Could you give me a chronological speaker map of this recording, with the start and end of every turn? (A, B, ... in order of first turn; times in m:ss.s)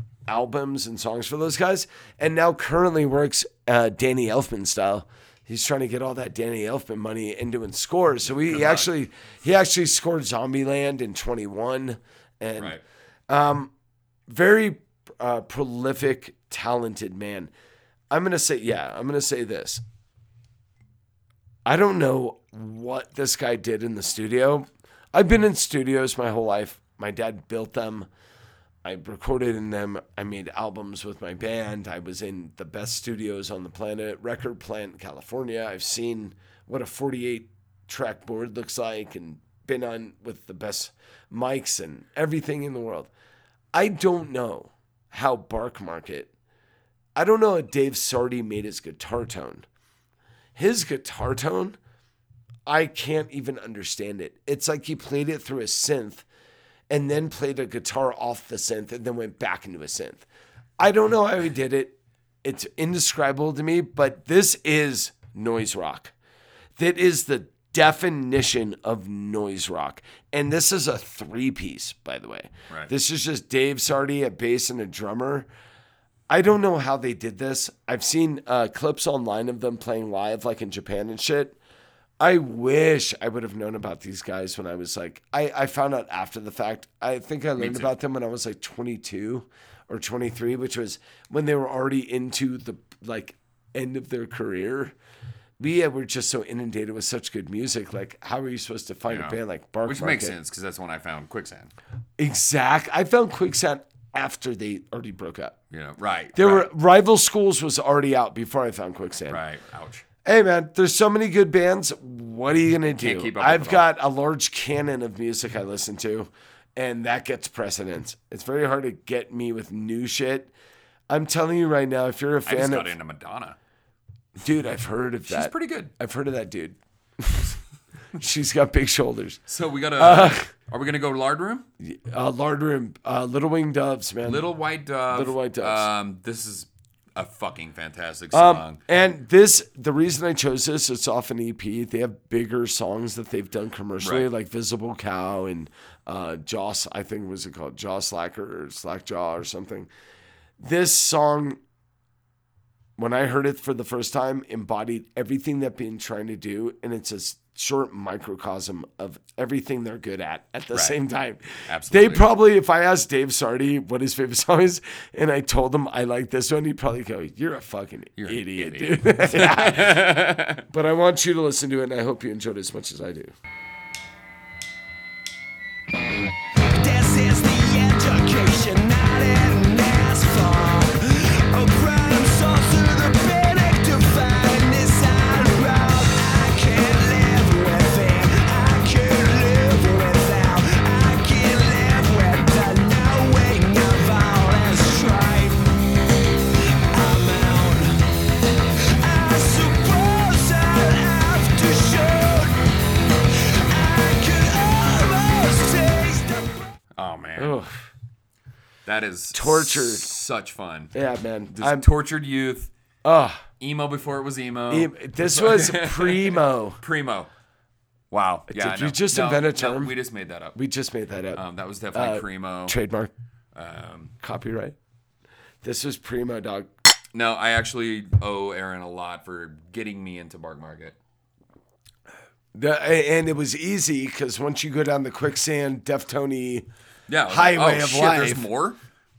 0:00.3-0:13.7 A
0:08.3-0:08.9 B
0:12.6-0:12.8 B
0:14.3-0:17.5 A
0:18.1-0:19.8 A
0:21.6-0:28.1 A
0:28.8-0:43.1 A
0:43.7-0:46.3 A
0:47.2-0:49.7 A
0:50.6-0:51.8 A
0:52.7-0:56.3 A
0:56.9-1:00.3 A
1:00.8-1:06.1 A
1:06.8-1:15.5 A
1:16.3-1:21.6 A
1:22.2-1:35.0 A
1:27.6-1:27.9 B
1:35.6-1:40.4 A
1:39.1-1:41.7 B
1:42.2-1:45.6 A
1:45.7-1:46.7 B
1:46.4-1:49.4 A
1:49.3-1:50.0 B
1:50.2-2:00.5 A
1:52.9-1:53.9 B
2:01.1-2:02.9 A
2:02.5-2:03.6 B
2:04.4-2:07.6 A
2:05.3-2:05.9 B
2:08.2-2:09.4 A
2:09.5-2:11.7 B
2:10.0-2:10.5 A
2:11.8-2:14.5 A
2:14.2-2:18.8 B
2:15.1-2:15.9 A
2:18.3-2:29.9 A
2:24.0-2:24.3 B
2:30.6-2:31.6 A
2:33.0-2:53.3 A
2:40.7-2:41.0 B
2:41.7-2:42.3 B
2:48.2-2:50.7 B
2:56.7-3:15.6 C
3:16.9-3:18.0 C
3:19.0-3:22.6 C
3:23.7-3:26.6 C
3:27.0-3:27.6 B
3:27.4-3:27.7 A
3:28.9-3:30.9 B
3:29.3-3:30.1 A
3:30.9-3:31.9 A
3:31.5-3:32.7 B
3:33.0-3:33.5 A
3:33.6-3:37.3 B
3:34.7-3:36.8 A
3:38.1-3:40.6 B
3:38.5-3:40.0 A
3:40.6-3:41.4 A
3:41.3-3:42.8 B
3:41.9-3:43.1 A
3:43.6-3:44.1 B
3:44.2-3:44.8 A
3:45.6-3:46.7 A
3:47.1-3:51.0 B
3:52.5-3:56.7 A
3:57.1-3:58.8 B
3:57.3-3:58.5 A